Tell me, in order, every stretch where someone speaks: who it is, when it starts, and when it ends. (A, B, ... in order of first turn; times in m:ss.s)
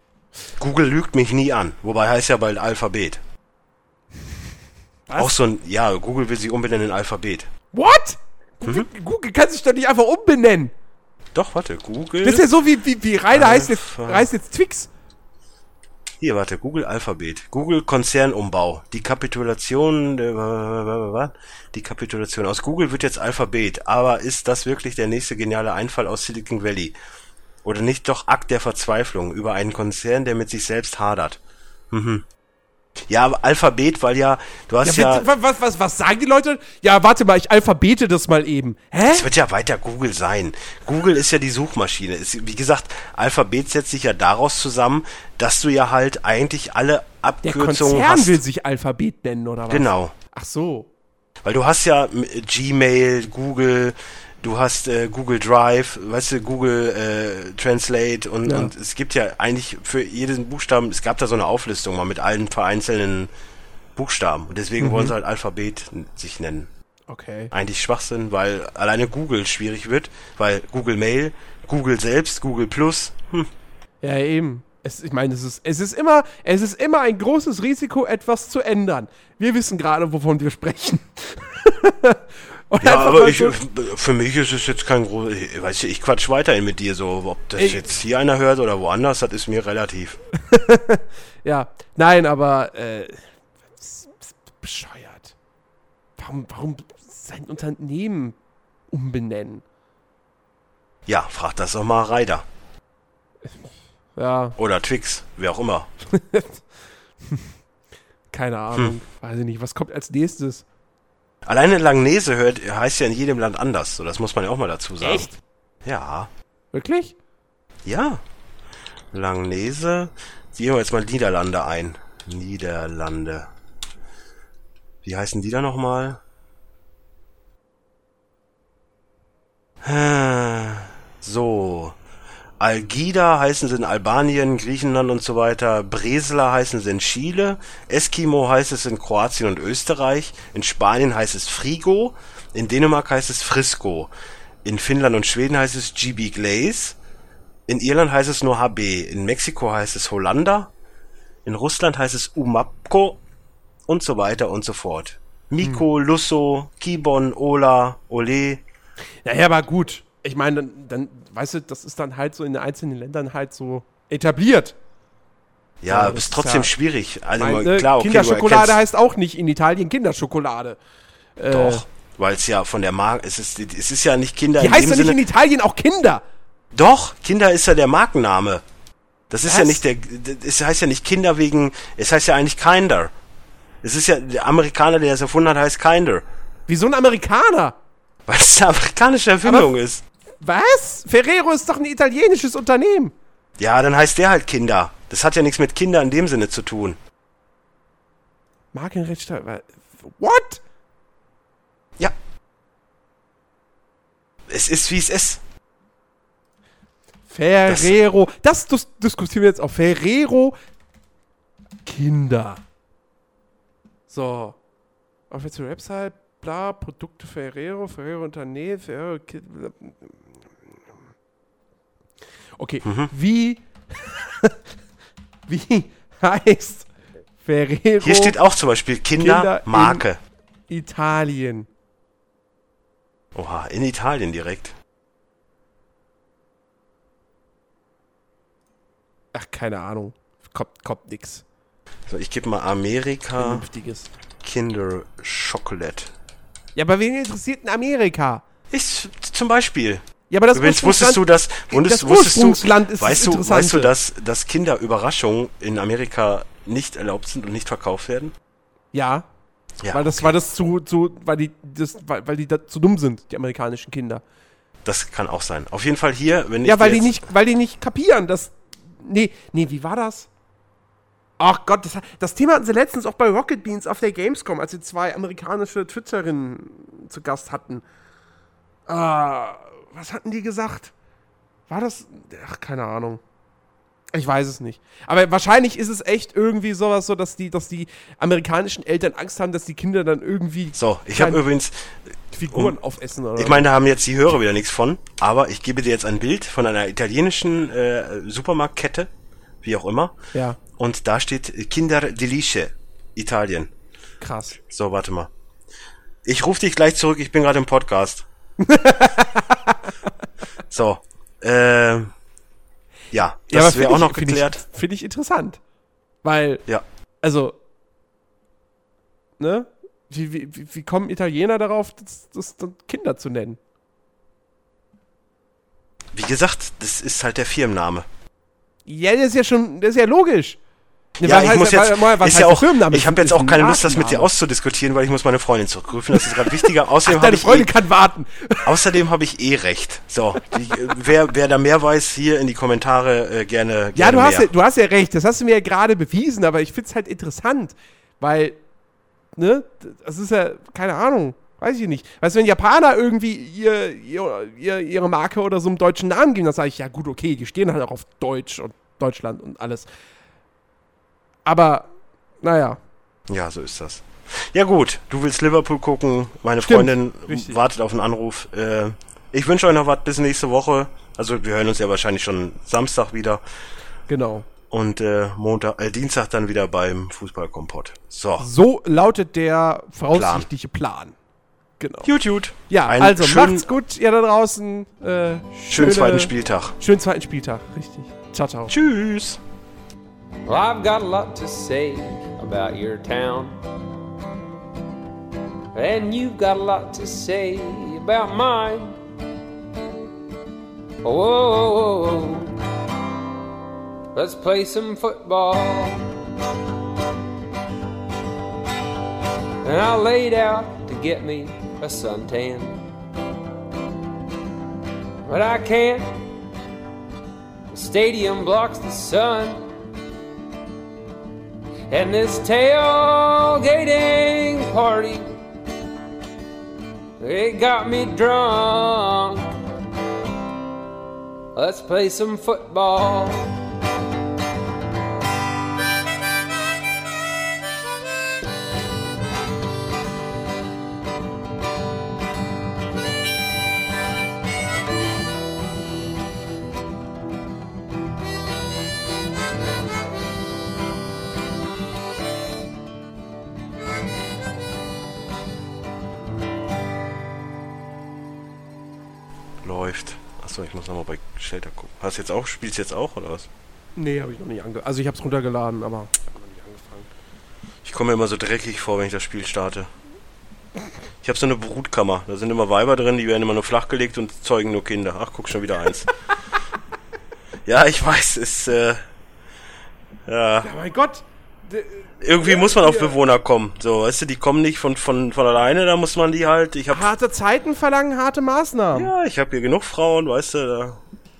0:00.6-0:03.2 A
0:05.1-0:05.4 B
0:05.2-0:07.5 A
0:07.7-0:10.7 B
0:11.3-0:12.5 A
0:12.2-0:14.9 B
0:13.3-0:14.3 A
0:16.2-0:27.0 A
0:27.6-0:31.4 A
0:31.9-0:32.2 A
0:33.1-0:35.3 A
0:34.8-0:39.3 B
0:39.1-0:48.4 A
0:47.4-0:50.9 B
0:49.7-0:50.1 A
0:51.4-1:03.3 A
0:58.5-0:58.7 B
1:04.0-1:06.7 A
1:04.8-1:05.1 B
1:07.1-1:07.5 B
1:07.5-1:13.5 A
1:14.0-1:23.6 B
1:22.8-1:30.2 A
1:27.6-1:27.9 B
1:30.5-1:35.4 B
1:36.2-1:38.4 B
1:38.9-1:39.6 B
1:41.1-1:42.4 A
1:44.2-1:44.6 B
1:44.6-1:45.9 A
1:46.1-1:46.6 B
1:48.3-1:50.6 B
1:51.5-1:55.3 A
1:55.0-1:55.4 B
1:55.8-1:56.3 A
1:56.7-1:57.2 B
1:57.8-1:58.2 A
1:59.1-2:03.5 A
2:05.0-2:06.2 A
2:09.8-2:12.0 A
2:12.6-2:24.1 A
2:24.6-2:27.0 A
2:27.7-2:30.7 A
2:31.4-2:33.2 A
2:33.9-2:38.6 A
2:39.2-2:44.8 B
2:45.8-2:48.8 A
2:45.9-2:46.7 B
2:47.4-2:50.8 B
2:51.4-2:51.8 B
2:51.5-2:55.2 A
2:54.6-2:56.2 B
2:56.7-2:58.6 A
2:59.3-3:03.1 A
2:59.5-2:59.8 B
3:03.8-3:06.2 A
3:06.7-3:07.8 B
3:08.3-3:10.0 A
3:09.4-3:09.7 B
3:10.4-3:13.1 B
3:13.6-3:17.0 A
3:18.7-3:20.6 B
3:24.5-3:25.4 A
3:27.3-3:30.6 B
3:27.6-3:28.0 A
3:31.8-3:32.6 B
3:34.1-3:34.6 B
3:35.3-3:40.2 B
3:42.6-3:44.6 B
3:42.8-3:43.1 A
3:45.5-3:46.9 B
3:47.4-3:48.4 B
3:48.0-3:50.2 A
3:49.2-3:50.0 B
3:50.7-3:51.7 B
3:53.4-3:54.8 A
3:59.3-4:01.4 B
4:02.1-4:03.6 A
4:03.4-4:04.1 B
4:04.4-4:06.1 A
4:06.8-4:08.4 B
4:08.7-4:18.3 A
4:10.3-4:13.9 B
4:18.9-4:19.3 B
4:19.8-4:20.3 A
4:19.9-4:24.2 B
4:24.8-4:27.1 A
4:26.6-4:30.3 B
4:31.4-4:37.8 B
4:38.9-4:40.9 B
4:41.7-4:43.2 B
4:44.1-4:51.4 B
4:50.8-4:52.0 A
4:52.3-4:53.7 B
4:53.4-4:59.1 A
4:59.6-5:00.1 A
5:00.7-5:03.7 A
5:04.2-5:04.6 B
5:04.6-5:05.3 A
5:06.2-5:08.3 A
5:08.6-5:09.9 B
5:10.7-5:12.1 A
5:13.1-5:14.6 A
5:13.5-5:15.6 B
5:16.2-5:16.6 B
5:17.2-5:17.6 B
5:19.4-5:23.6 B
5:26.1-5:28.1 A
5:28.9-5:30.6 B
5:31.2-5:37.7 A
5:31.2-5:34.3 B
5:36.1-5:38.8 B
5:38.6-5:44.5 A
5:44.0-5:48.6 B
5:49.4-5:59.9 B
6:01.5-6:01.9 B
6:02.4-6:02.8 B
6:03.3-6:13.4 A
6:06.7-6:07.6 B
6:14.1-6:14.5 B
6:14.7-6:18.5 A
6:18.4-6:21.2 B
6:20.1-6:20.5 A
6:21.8-6:22.1 B
6:22.0-6:23.7 A
6:22.7-6:28.7 B
6:25.7-6:26.8 A
6:28.7-6:29.4 A
6:30.5-6:33.6 C
6:35.7-6:39.0 C
6:41.0-6:42.5 C
6:44.1-6:46.1 C
6:49.6-6:52.8 C
6:55.2-6:56.2 C
6:57.7-6:59.7 C
7:01.9-7:05.3 C
7:07.2-7:09.5 C
7:11.6-7:13.6 C
7:39.6-7:43.5 A
7:44.0-7:47.1 B
7:47.8-7:49.9 A
7:51.2-7:56.1 A
7:57.7-7:59.0 A
8:00.3-8:00.7 A
8:00.6-8:03.2 B
8:02.2-8:07.1 A
8:06.9-8:09.1 B
8:08.9-8:11.0 A